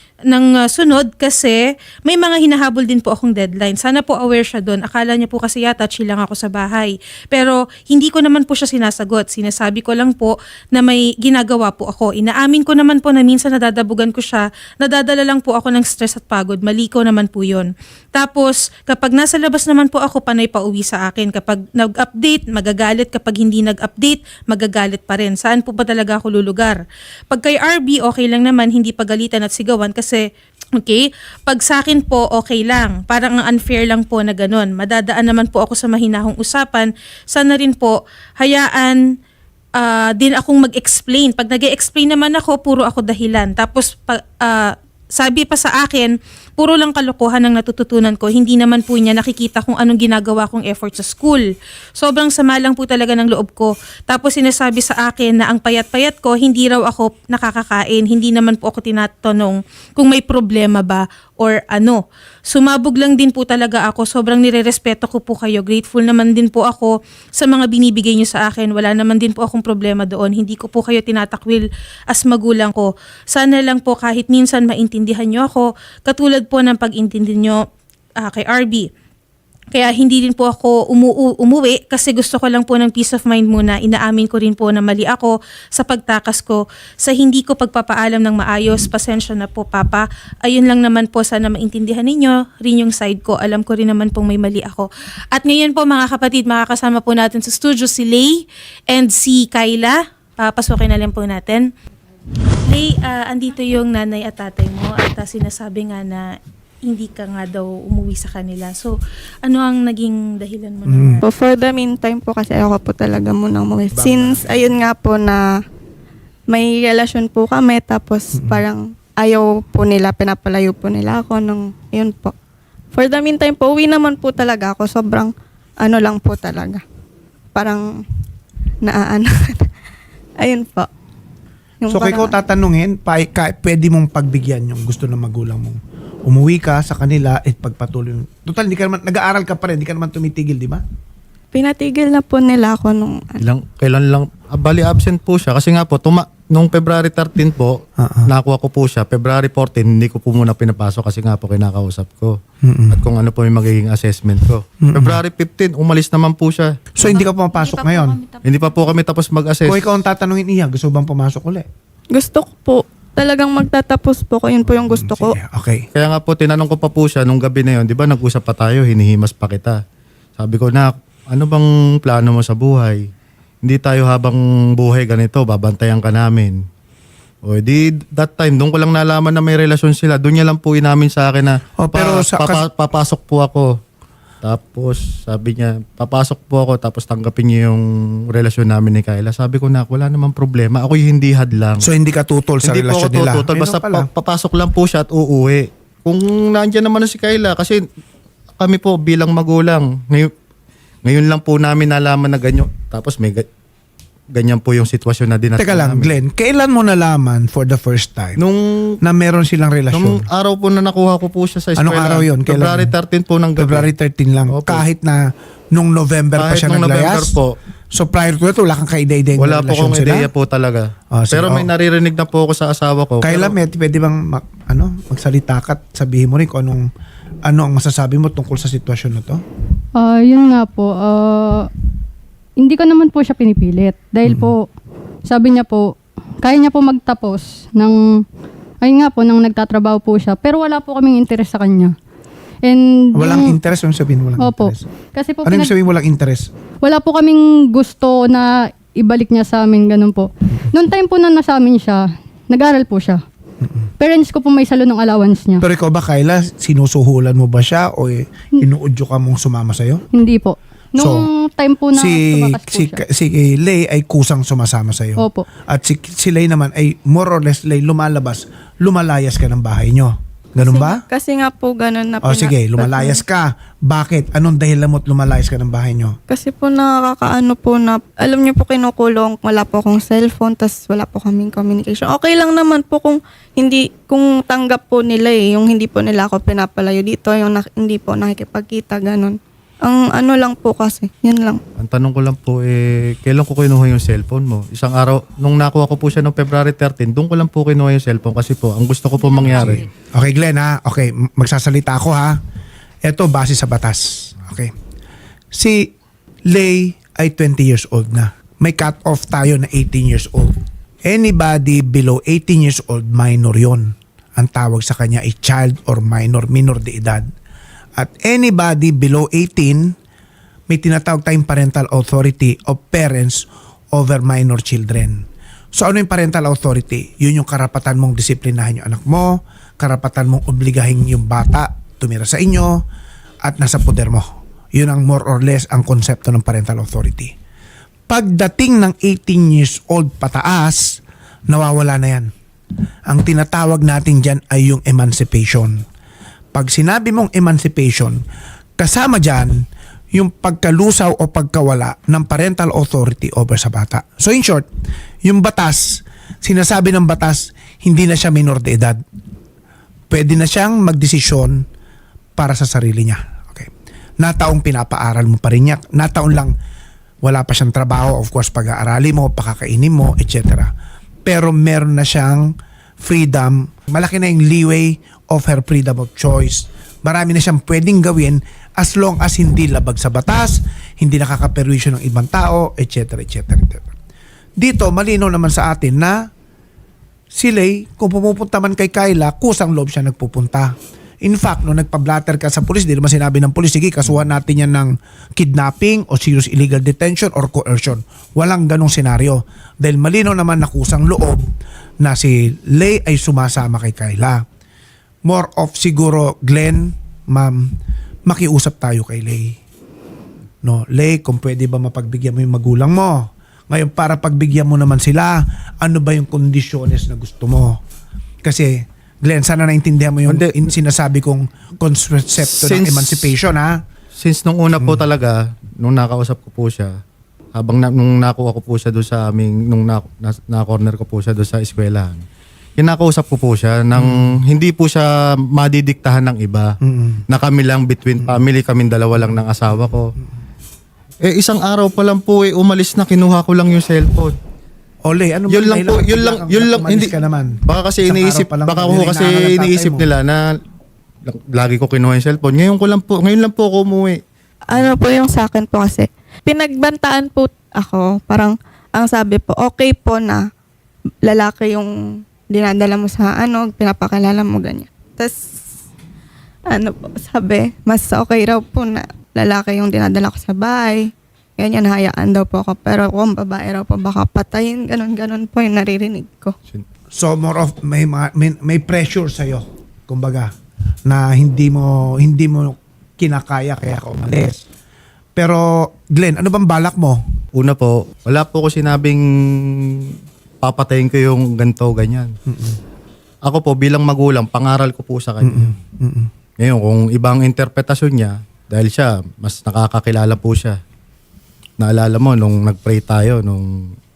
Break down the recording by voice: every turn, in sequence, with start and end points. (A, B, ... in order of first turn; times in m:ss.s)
0:00.3-0:30.2 A
0:30.8-0:39.0 A
0:39.8-0:51.4 A
0:52.0-1:17.6 A
1:18.2-1:18.9 A
1:19.7-1:41.7 A
1:42.6-1:46.3 A
1:46.9-1:51.2 A
1:50.9-1:51.2 B
1:51.2-1:55.4 C
1:53.9-1:54.7 B
1:56.5-2:02.3 C
1:58.3-1:58.6 B
2:02.9-2:06.8 C
2:07.6-2:08.0 C
2:08.8-2:09.7 C
2:10.4-2:10.9 C
2:11.8-2:12.4 C
2:11.9-2:20.8 B
2:21.5-2:23.4 C
2:23.4-2:32.4 D
2:28.0-2:28.3 B
2:32.6-2:33.0 B
2:32.9-2:36.8 D
2:34.8-2:35.2 B
2:37.0-2:38.2 B
2:37.0-2:38.9 E
2:38.4-2:39.9 D
2:39.6-2:41.7 B
2:42.1-2:45.4 C
2:44.7-2:45.9 B
2:45.9-2:49.8 D
2:50.4-2:53.0 D
2:53.6-2:56.6 D
2:57.4-3:03.8 D
3:01.8-3:02.6 B
3:04.4-3:11.9 D
3:11.8-3:14.1 B
3:12.6-3:17.8 D
3:18.6-3:20.3 D
3:21.0-3:23.5 D
3:24.3-3:26.1 D
3:25.6-3:28.4 B
3:28.4-3:29.0 D
3:29.0-3:30.3 B
3:29.9-3:33.9 D
3:31.8-3:32.9 B
3:33.6-3:37.4 B
3:34.5-3:34.8 D
3:36.4-3:37.6 D
3:37.9-3:40.3 B
3:39.4-3:43.6 D
3:41.1-3:41.7 B
3:43.2-3:46.9 B
3:47.4-3:49.4 B
3:50.0-3:51.7 F
3:52.6-3:54.7 F
3:54.2-3:54.6 B
3:55.3-3:58.2 F
3:58.8-4:02.0 F
4:02.6-4:03.6 F
4:03.2-4:04.9 B
4:04.4-4:05.7 F
4:05.4-4:06.5 B
4:06.8-4:13.2 F
4:13.6-4:13.9 B
4:14.0-4:15.6 F
4:15.6-4:20.0 B
4:20.1-4:23.0 F
4:21.0-4:21.2 B
4:22.0-4:31.0 B
4:25.2-4:25.4 F
4:30.6-4:33.2 C
4:32.2-4:36.2 B
4:36.3-4:51.6 C
4:51.8-4:59.8 D
4:59.2-4:59.9 E
4:59.5-5:02.4 B
5:03.0-5:04.7 B
5:05.5-5:05.9 B
5:06.5-5:17.3 B
5:18.0-5:20.0 B
5:20.7-5:32.8 B
5:33.4-5:37.3 B
5:38.1-5:42.3 B
5:43.1-5:45.9 B
5:46.5-5:48.2 B
5:48.8-5:54.7 B
5:55.2-5:59.0 B
6:00.1-6:01.6 B
6:02.4-6:06.6 B
6:07.2-6:10.7 B
6:11.2-6:23.9 B
6:24.6-6:26.3 B
6:27.3-6:41.5 B
6:42.0-6:44.4 B
6:45.3-6:47.7 B
6:48.3-6:49.6 B
6:50.6-6:57.8 B
6:58.4-7:03.8 B
7:00.3-7:00.7 D
7:02.5-7:03.3 D
7:04.2-7:07.0 D
7:07.6-7:12.2 D
7:12.8-7:16.8 D
7:14.0-7:14.4 B
7:16.8-7:17.2 B
7:17.3-7:20.1 D
7:19.8-7:20.4 B
7:21.2-7:24.4 D
7:25.0-7:30.1 B
7:25.5-7:27.1 D
7:27.7-7:30.5 D
7:31.3-7:34.2 D
7:34.7-7:40.4 C
7:41.3-7:41.9 C
7:42.5-7:45.4 C
7:46.7-7:56.6 C
7:57.1-8:00.5 B
8:01.1-8:04.7 B
8:05.4-8:07.2 B
8:07.6-8:10.1 D
8:10.6-8:12.3 D
8:12.5-8:12.8 B
8:13.4-8:15.8 D
8:15.4-8:16.3 B
8:16.6-8:20.8 D
8:21.8-8:24.0 D